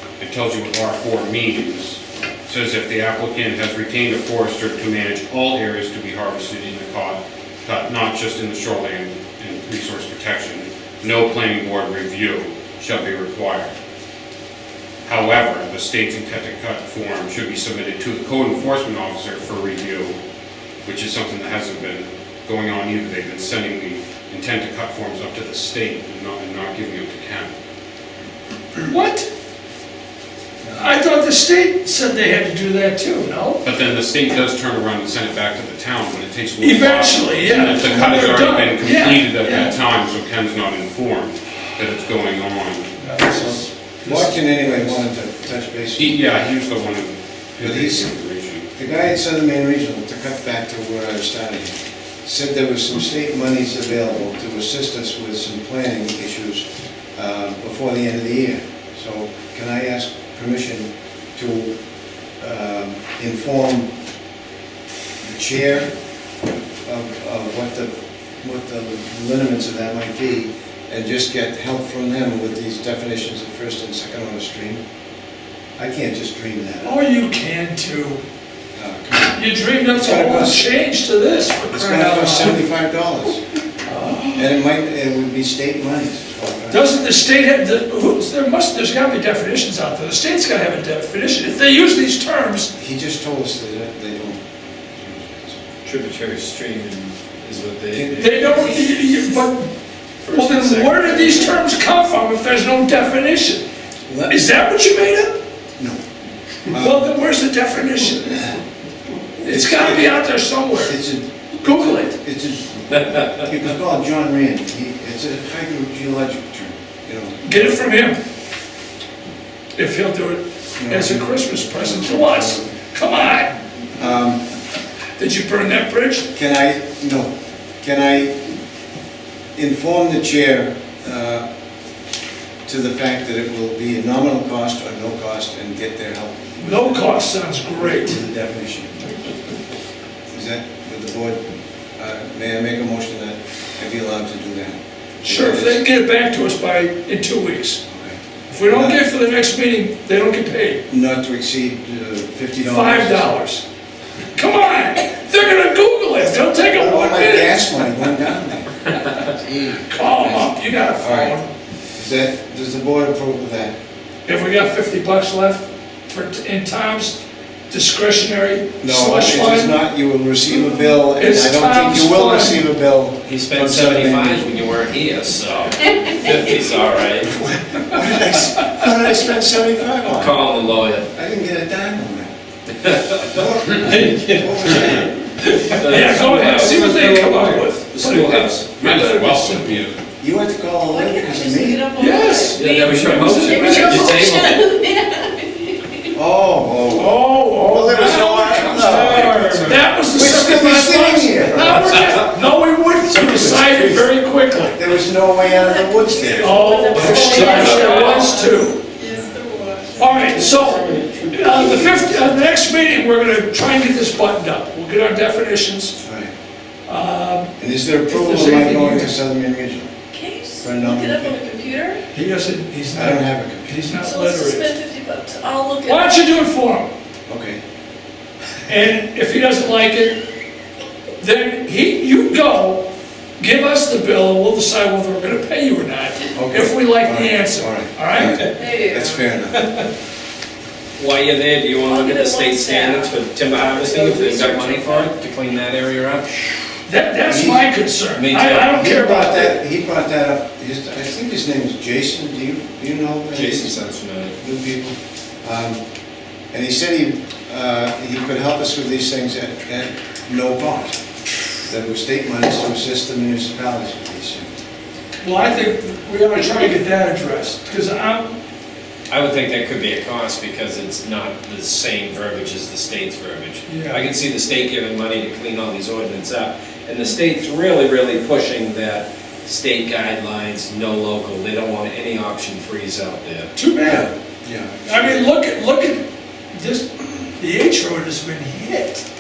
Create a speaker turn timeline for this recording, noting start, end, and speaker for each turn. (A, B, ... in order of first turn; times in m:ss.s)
0:00.2-0:13.8 A
0:15.0-0:20.2 A
0:20.8-0:27.5 A
0:28.8-0:29.3 B
0:30.8-0:33.6 B
0:33.6-0:42.9 A
0:36.6-0:39.8 B
0:43.0-0:45.0 B
0:43.4-0:46.2 C
0:46.0-0:48.6 A
0:47.6-0:48.1 C
0:48.8-1:01.8 C
1:02.4-1:03.9 C
1:05.2-1:05.9 C
1:06.8-1:14.8 C
1:15.8-1:17.0 C
1:16.8-1:18.2 B
1:18.8-1:20.7 C
1:19.3-1:22.6 B
1:21.7-1:23.4 C
1:23.9-1:24.5 B
1:24.3-1:26.9 C
1:26.7-1:32.7 B
1:32.8-1:35.6 C
1:35.8-1:38.9 D
1:37.9-1:38.6 C
1:38.2-1:39.7 B
1:40.2-1:41.6 D
1:40.2-1:43.6 B
1:44.1-1:44.4 C
1:44.3-1:45.4 B
1:46.7-1:47.1 C
1:46.8-1:48.5 B
1:49.4-1:51.0 B
1:49.4-1:50.2 C
1:50.7-1:57.8 C
1:51.6-1:52.1 B
1:53.1-1:53.4 D
1:57.4-1:58.2 B
1:59.8-2:03.6 B
2:00.8-2:02.7 C
2:04.0-2:04.4 C
2:05.2-2:06.3 B
2:06.3-2:07.3 C
2:07.8-2:08.4 C
2:09.6-2:11.4 C
2:12.7-2:18.9 C
2:16.6-2:18.2 B
2:20.3-2:21.4 C
2:22.0-2:25.8 C
2:25.2-2:27.8 B
2:27.9-2:29.0 C
2:28.5-2:30.8 B
2:30.9-2:33.3 C
2:32.7-2:33.6 B
2:34.3-2:37.8 B
2:36.8-2:41.4 C
2:39.9-2:41.5 B
2:42.0-2:43.8 C
2:44.3-2:47.2 B
2:47.7-2:49.8 B
2:48.8-2:54.5 C
2:51.2-2:52.7 B
2:53.3-2:57.4 D
2:57.4-3:00.5 C
3:00.0-3:01.1 D
3:01.1-3:02.3 C
3:02.8-3:08.6 D
3:03.2-3:05.1 C
3:05.8-3:09.9 B
3:08.8-3:10.0 A
3:10.2-3:11.9 C
3:10.9-3:16.2 E
3:12.0-3:14.2 B
3:12.5-3:14.7 D
3:16.1-3:22.2 C
3:17.0-3:24.8 B
3:18.8-3:19.8 D
3:23.1-3:24.1 C
3:24.7-3:27.2 C
3:25.4-3:31.2 E
3:26.4-3:28.8 B
3:26.9-3:27.7 D
3:29.0-3:29.4 C
3:30.0-3:36.0 B
3:30.3-3:32.5 D
3:36.0-3:36.3 C
3:36.9-3:37.5 B
3:37.6-3:39.9 C
3:38.1-3:39.1 B
3:40.1-3:42.0 E
3:40.6-3:41.4 C
3:42.1-3:44.7 B
3:42.9-3:43.9 C
3:43.9-3:46.3 E
3:45.8-3:46.9 B
3:47.3-3:47.6 C
3:48.7-3:50.2 B
3:51.2-3:52.9 B
3:53.4-3:58.4 B
3:56.4-3:59.7 C
3:58.2-3:58.6 D
3:58.6-3:59.3 E
4:01.0-4:06.8 D
4:01.8-4:05.1 E
4:06.9-4:09.6 B
4:07.3-4:07.7 C
4:08.2-4:08.7 D
4:08.7-4:13.8 C
4:13.3-4:14.4 D
4:14.4-4:15.8 C
4:16.5-4:21.0 C
4:21.6-4:24.5 C
4:25.2-4:28.3 B
4:29.1-4:43.5 D
4:33.7-4:34.1 B
4:43.6-4:44.1 B
4:43.8-4:45.1 C
4:44.9-4:49.0 B